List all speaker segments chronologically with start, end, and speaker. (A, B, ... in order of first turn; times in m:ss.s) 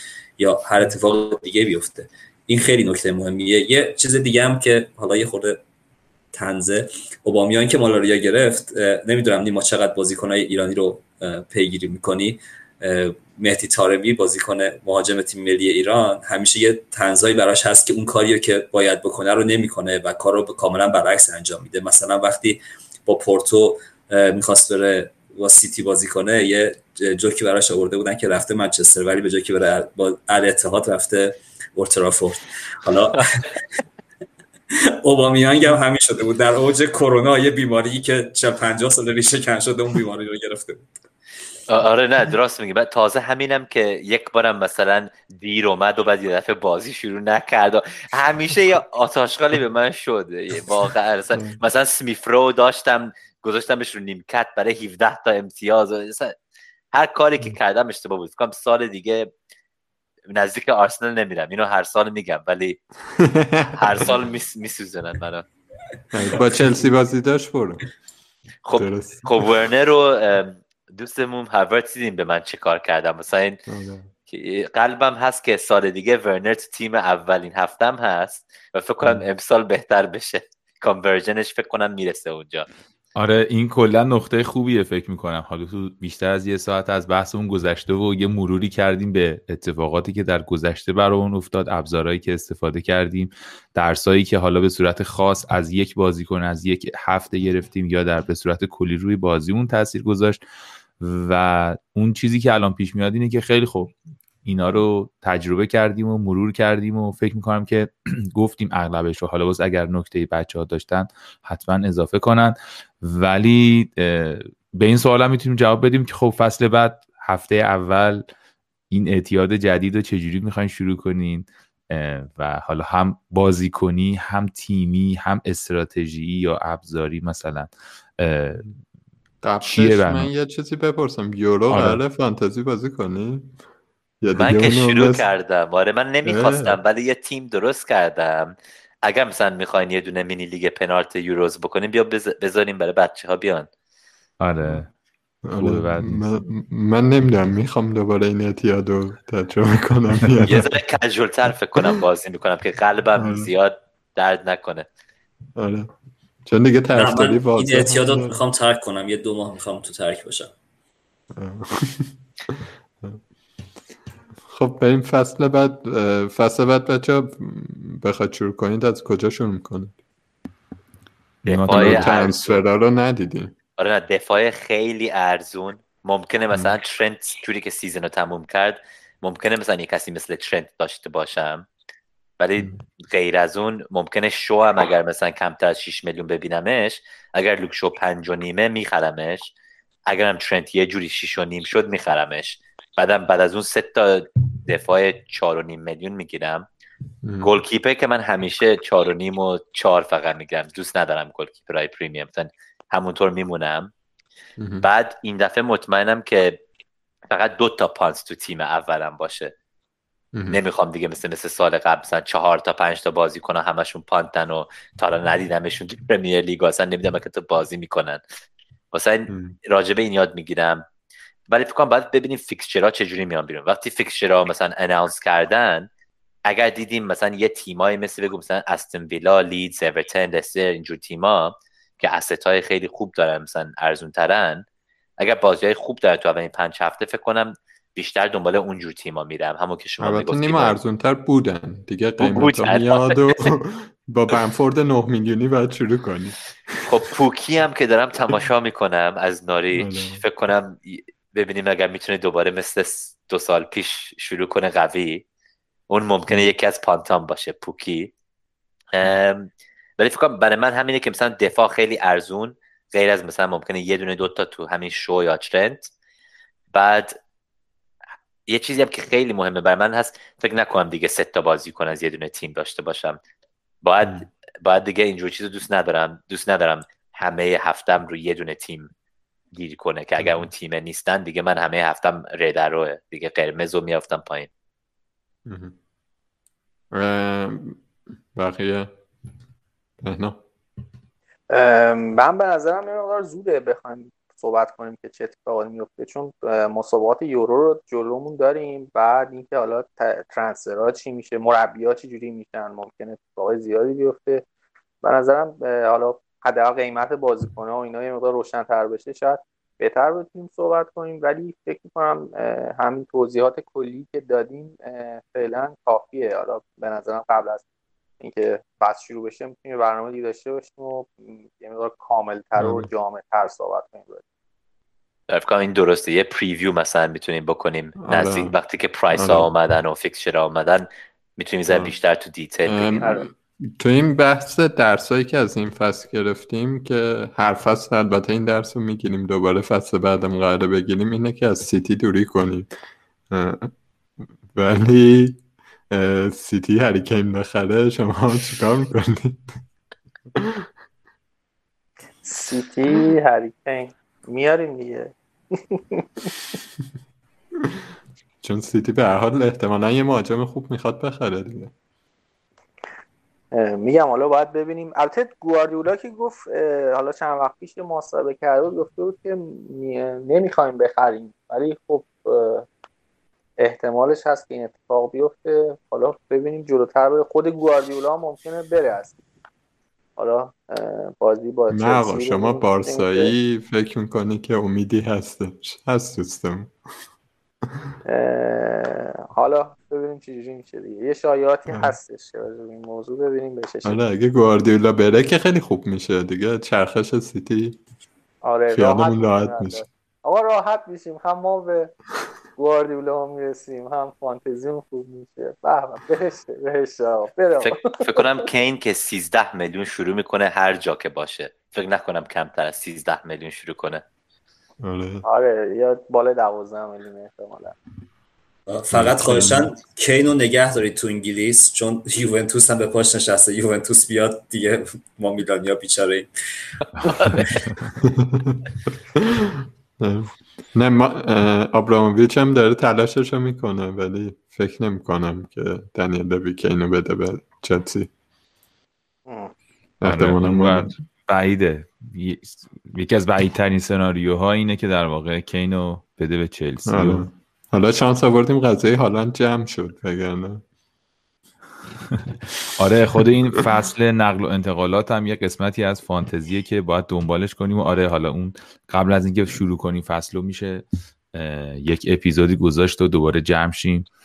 0:00.4-0:05.6 A
0:06.3-0:33.6 A
0:35.0-0:40.9 A
0:41.7-0:56.4 B
0:56.9-0:59.3 B
1:00.3-1:02.8 B
1:03.2-1:03.9 C
1:03.7-1:05.4 B
1:06.1-1:07.8 C
1:08.7-1:13.6 B
1:08.8-1:09.5 C
1:13.7-1:14.1 C
1:14.3-1:22.7 B
1:23.2-1:40.4 D
1:41.0-1:43.9 D
1:44.4-1:58.3 D
1:58.9-2:08.7 D
2:09.4-2:13.6 C
2:09.6-2:10.3 D
2:11.7-2:12.0 D
2:14.2-2:15.2 C
2:14.4-2:23.7 B
2:16.2-2:16.8 C
2:24.4-2:24.9 D
2:25.4-2:30.8 C
2:25.6-2:26.3 D
2:30.4-2:34.9 B
2:33.2-2:33.5 C
2:35.6-2:35.9 C
2:36.4-2:38.4 C
2:36.9-2:40.5 A
2:41.3-2:43.2 C
2:44.5-2:50.0 C
2:51.4-2:52.1 D
2:51.5-2:52.6 B
2:51.7-2:53.6 C
2:53.8-3:01.7 B
3:02.4-3:09.5 B
3:02.6-3:02.8 C
3:10.1-3:16.7 B
3:17.2-3:17.5 C
3:17.4-3:23.9 B
3:24.6-3:24.8 C
3:24.8-3:26.6 B
3:27.3-3:29.5 B
3:30.3-3:30.6 C
3:30.5-3:38.2 B
3:38.9-3:40.8 B
3:39.3-3:39.6 C
3:41.5-3:45.9 B
3:46.5-3:54.6 B
3:55.2-4:00.8 B
4:00.0-4:07.0 C
4:02.2-4:03.4 B
4:06.9-4:15.2 B
4:09.8-4:10.2 C
4:15.9-4:18.1 B
4:16.3-4:16.5 C
4:18.9-4:25.9 B
4:26.7-4:27.2 B
4:28.5-4:33.2 B
4:33.8-4:38.9 B
4:39.5-4:44.5 B
4:40.2-4:40.5 C
4:45.4-4:45.8 C
4:46.9-4:48.9 C
4:50.0-4:50.4 C
4:51.5-5:04.4 E
5:05.0-5:17.6 E
5:18.2-5:24.2 E
5:22.6-5:22.9 C
5:25.3-5:33.0 B
5:28.0-5:28.5 C
5:29.1-5:29.5 C
5:32.7-5:42.7 C
5:33.0-5:33.3 E
5:43.3-5:43.7 C
5:44.5-5:49.6 C
5:50.3-5:50.7 C
5:52.2-5:56.4 E
5:58.4-6:01.7 C
6:03.5-6:12.7 E
6:13.6-6:19.2 E
6:20.2-6:23.3 E
6:21.7-6:26.7 C
6:28.0-6:34.0 E
6:31.7-6:31.9 C
6:33.8-6:37.8 C
6:38.4-6:41.9 E
6:38.7-6:39.8 C
6:42.6-6:48.4 E
6:47.6-6:54.0 B
6:54.8-6:55.2 C
6:55.2-6:57.8 E
6:58.7-7:06.3 A
6:58.9-6:59.7 C
7:07.1-7:07.7 D
7:08.0-7:08.6 C
7:09.2-7:18.1 C
7:19.3-7:19.5 E
7:20.0-7:21.0 C
7:20.0-7:27.3 D
7:26.9-7:30.6 C
7:32.1-7:44.1 D